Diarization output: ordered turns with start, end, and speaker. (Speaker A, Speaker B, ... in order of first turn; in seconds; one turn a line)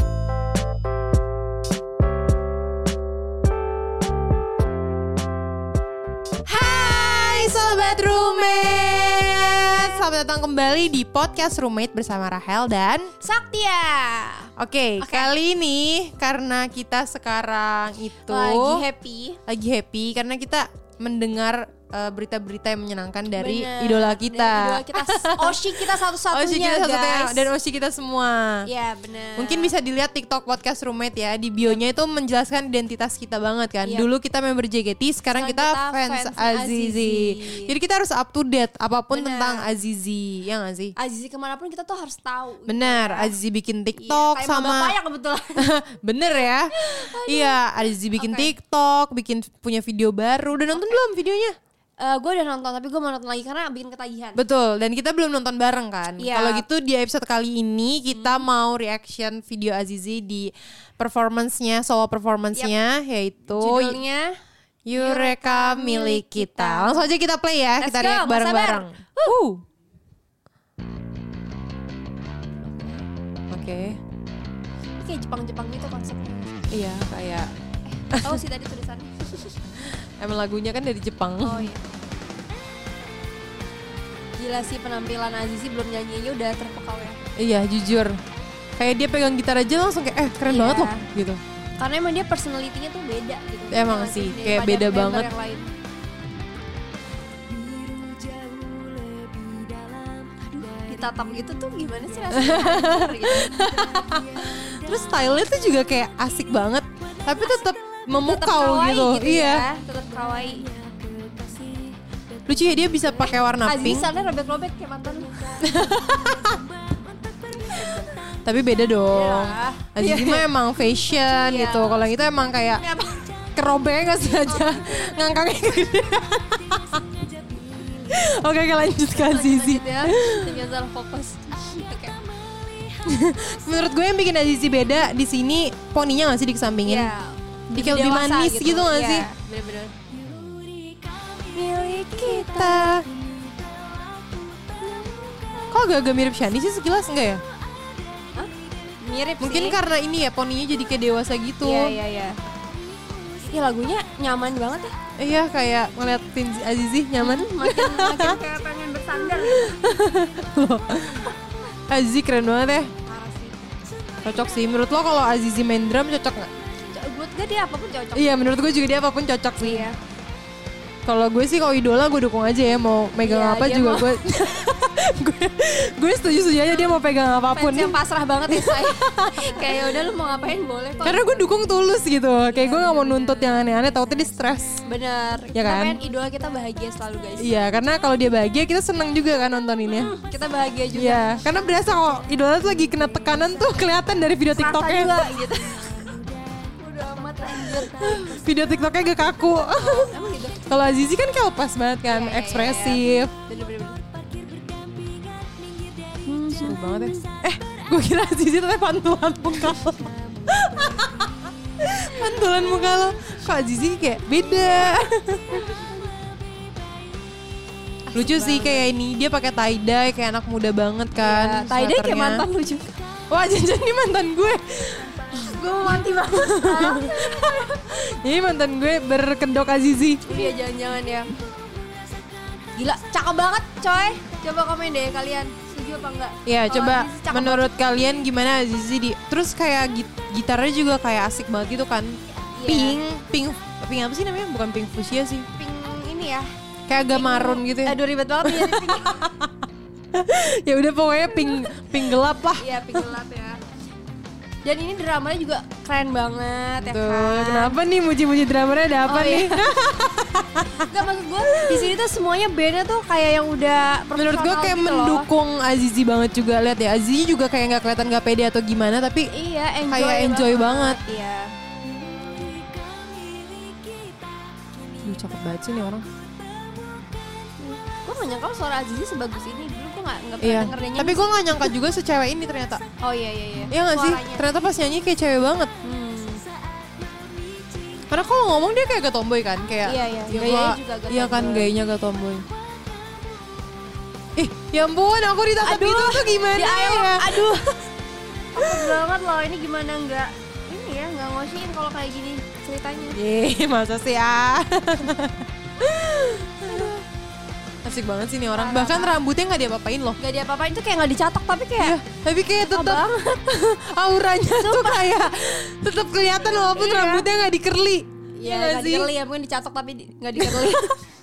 Speaker A: 6.5-10.0
Speaker B: 6.6-13.1
Speaker A: 13.2-15.3
Speaker B: 14.6-18.8
Speaker A: 18.3-19.4
Speaker B: 19.5-28.7
Speaker A: 23.3-27.5
Speaker A: 28.6-29.7
Speaker B: 29.4-40.9
Speaker A: 33.8-34.1
Speaker A: 35.3-37.7
Speaker A: 39.1-39.7
Speaker A: 41.0-43.3
Speaker B: 42.7-44.9
Speaker A: 43.9-45.7
Speaker B: 45.6-51.5
Speaker A: 46.5-48.5
Speaker A: 52.0-54.4
Speaker B: 54.4-64.0
Speaker A: 56.2-56.6
Speaker A: 58.1-58.4
Speaker A: 63.5-64.4
Speaker B: 64.8-69.6
Speaker A: 64.9-67.1
Speaker A: 67.8-69.3
Speaker B: 73.5-74.0
Speaker A: 75.0-76.7
Speaker B: 76.7-77.5
Speaker A: 77.9-79.6
Speaker B: 78.1-78.4
Speaker B: 79.8-81.7
Speaker A: 81.4-81.8
Speaker A: 84.4-87.2
Speaker B: 87.4-88.2
Speaker B: 88.8-91.4
Speaker A: 90.4-91.0
Speaker A: 91.8-95.7
Speaker B: 93.7-95.3
Speaker A: 97.5-105.2
Speaker B: 102.3-109.7
Speaker A: 107.4-112.0
Speaker B: 112.5-114.1
Speaker A: 112.8-118.2
Speaker B: 115.6-116.6
Speaker B: 117.7-122.8
Speaker A: 119.1-120.5
Speaker A: 121.1-122.1
Speaker A: 122.6-123.4
Speaker B: 123.5-127.0
Speaker A: 124.4-125.5
Speaker A: 127.5-128.3
Speaker B: 128.0-130.6
Speaker A: 129.1-132.2
Speaker B: 133.0-137.1
Speaker A: 136.8-145.7
Speaker B: 137.7-139.3
Speaker B: 142.1-143.1
Speaker B: 145.7-147.4
Speaker A: 148.3-149.8
Speaker B: 149.4-152.0
Speaker A: 151.6-152.4
Speaker A: 153.4-154.9
Speaker B: 155.2-158.4
Speaker A: 157.2-159.8
Speaker B: 159.2-161.3
Speaker B: 161.9-162.9
Speaker A: 163.1-163.6
Speaker B: 164.2-166.5
Speaker A: 166.8-168.5
Speaker B: 168.1-169.9
Speaker A: 169.6-170.0
Speaker B: 171.1-177.9
Speaker A: 173.2-174.2
Speaker A: 176.6-177.0
Speaker A: 177.5-181.3
Speaker B: 178.5-180.1
Speaker B: 181.0-184.8
Speaker A: 182.5-183.7
Speaker A: 184.8-187.5
Speaker B: 185.5-186.0
Speaker B: 187.4-190.1
Speaker A: 189.9-191.9
Speaker B: 190.9-195.1
Speaker A: 192.7-198.4
Speaker B: 197.5-200.1
Speaker A: 199.8-200.8
Speaker B: 200.7-203.3
Speaker A: 202.1-204.0
Speaker A: 206.2-206.8
Speaker B: 206.5-215.9
Speaker A: 218.1-218.9
Speaker B: 218.1-222.4
Speaker A: 221.2-223.0
Speaker B: 223.3-230.5
Speaker A: 225.0-227.8
Speaker A: 230.2-231.3
Speaker A: 232.8-237.8
Speaker B: 236.4-242.2
Speaker A: 242.6-243.0
Speaker B: 242.7-245.5
Speaker A: 245.6-246.5
Speaker B: 246.9-249.6
Speaker A: 247.1-249.2
Speaker B: 250.1-253.1
Speaker A: 251.4-251.8
Speaker A: 252.6-253.6
Speaker A: 254.6-257.8
Speaker B: 256.8-260.9
Speaker A: 259.0-259.7
Speaker A: 260.8-265.3
Speaker B: 261.4-261.9
Speaker B: 264.1-269.3
Speaker A: 269.3-271.5
Speaker B: 269.9-271.0
Speaker A: 272.7-273.1
Speaker B: 275.0-276.1
Speaker A: 277.6-281.7
Speaker B: 280.4-282.8
Speaker A: 283.0-284.6
Speaker B: 283.7-285.7
Speaker A: 285.8-286.4
Speaker B: 288.1-292.4
Speaker A: 289.8-291.7
Speaker B: 294.4-297.7
Speaker A: 295.6-297.7
Speaker A: 298.5-303.2
Speaker B: 298.6-298.9
Speaker B: 303.1-306.9
Speaker A: 306.6-307.0
Speaker B: 307.8-310.2
Speaker A: 308.5-309.2
Speaker A: 310.2-312.0
Speaker B: 311.8-319.1
Speaker A: 312.6-313.4
Speaker A: 314.5-315.2
Speaker A: 316.3-317.3
Speaker A: 318.4-321.0
Speaker B: 320.4-320.9